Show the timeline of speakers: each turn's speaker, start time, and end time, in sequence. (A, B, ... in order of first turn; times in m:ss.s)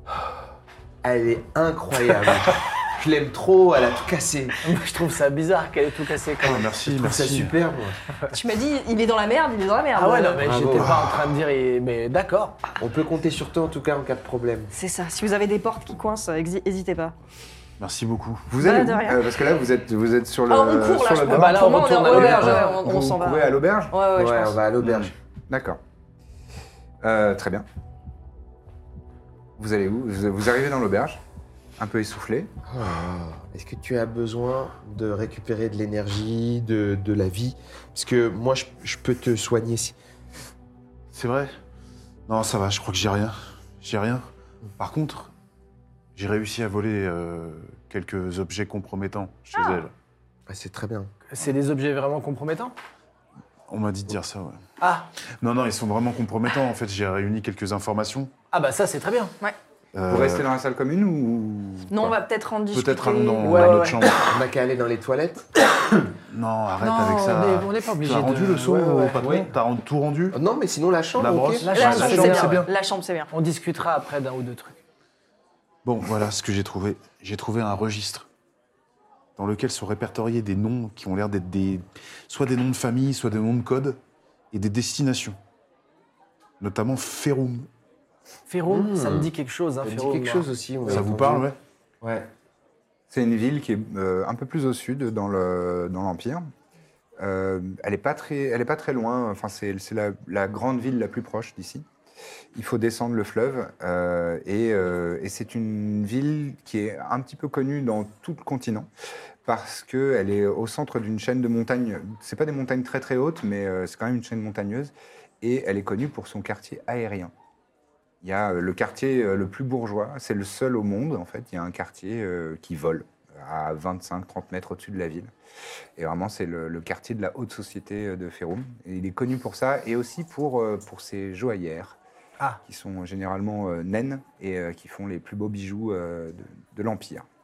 0:01.0-0:04.6 A
0:04.6-0:06.8 B
0:06.4-0:07.5 C
0:06.9-0:08.0 A
0:08.3-0:10.4 D
0:10.0-0:12.6 B
0:10.4-0:11.0 A
0:10.8-0:11.2 C
0:12.8-0:14.7 A
0:14.7-0:17.1 D
0:17.8-0:18.5 C
0:18.5-0:23.9 E
0:18.6-0:19.2 D
0:20.5-0:24.6 D
0:21.3-0:22.9 B
0:24.1-0:25.1 A
0:24.8-0:25.1 C
0:25.5-0:25.8 E
0:27.0-0:27.6 E
0:29.6-0:31.2 E
0:31.8-0:32.5 E
0:32.6-0:40.0 A
0:41.1-0:41.5 C
0:42.3-0:45.3 C
0:46.2-0:49.9 C
0:49.5-0:49.8 D
0:50.5-0:51.1 A
0:51.3-0:52.7 B
0:53.7-0:54.6 C
0:54.8-0:55.1 B
0:55.4-0:58.3 C
0:58.5-0:59.3 B
0:59.9-1:00.4 C
1:00.1-1:02.1 E
1:01.9-1:03.9 D
1:02.7-1:04.4 C
1:03.4-1:04.0 B
1:04.2-1:05.5 A
1:06.3-1:10.4 C
1:06.8-1:09.2 B
1:09.1-1:09.5 A
1:10.3-1:11.7 A
1:11.2-1:12.7 C
1:11.6-1:12.7 B
1:11.7-1:13.3 D
1:13.3-1:14.8 B
1:15.8-1:18.3 C
1:19.4-1:24.0 C
1:24.5-1:25.4 C
1:26.6-1:27.7 C
1:28.5-1:31.0 B
1:28.7-1:29.3 A
1:29.8-1:31.5 A
1:30.9-1:31.6 C
1:32.0-1:32.3 A
1:33.1-1:36.5 E
1:37.2-1:41.8 E
1:42.5-1:48.9 E
1:49.4-1:57.3 E
1:58.2-2:05.3 E
2:06.0-2:12.0 E
2:12.7-2:17.2 E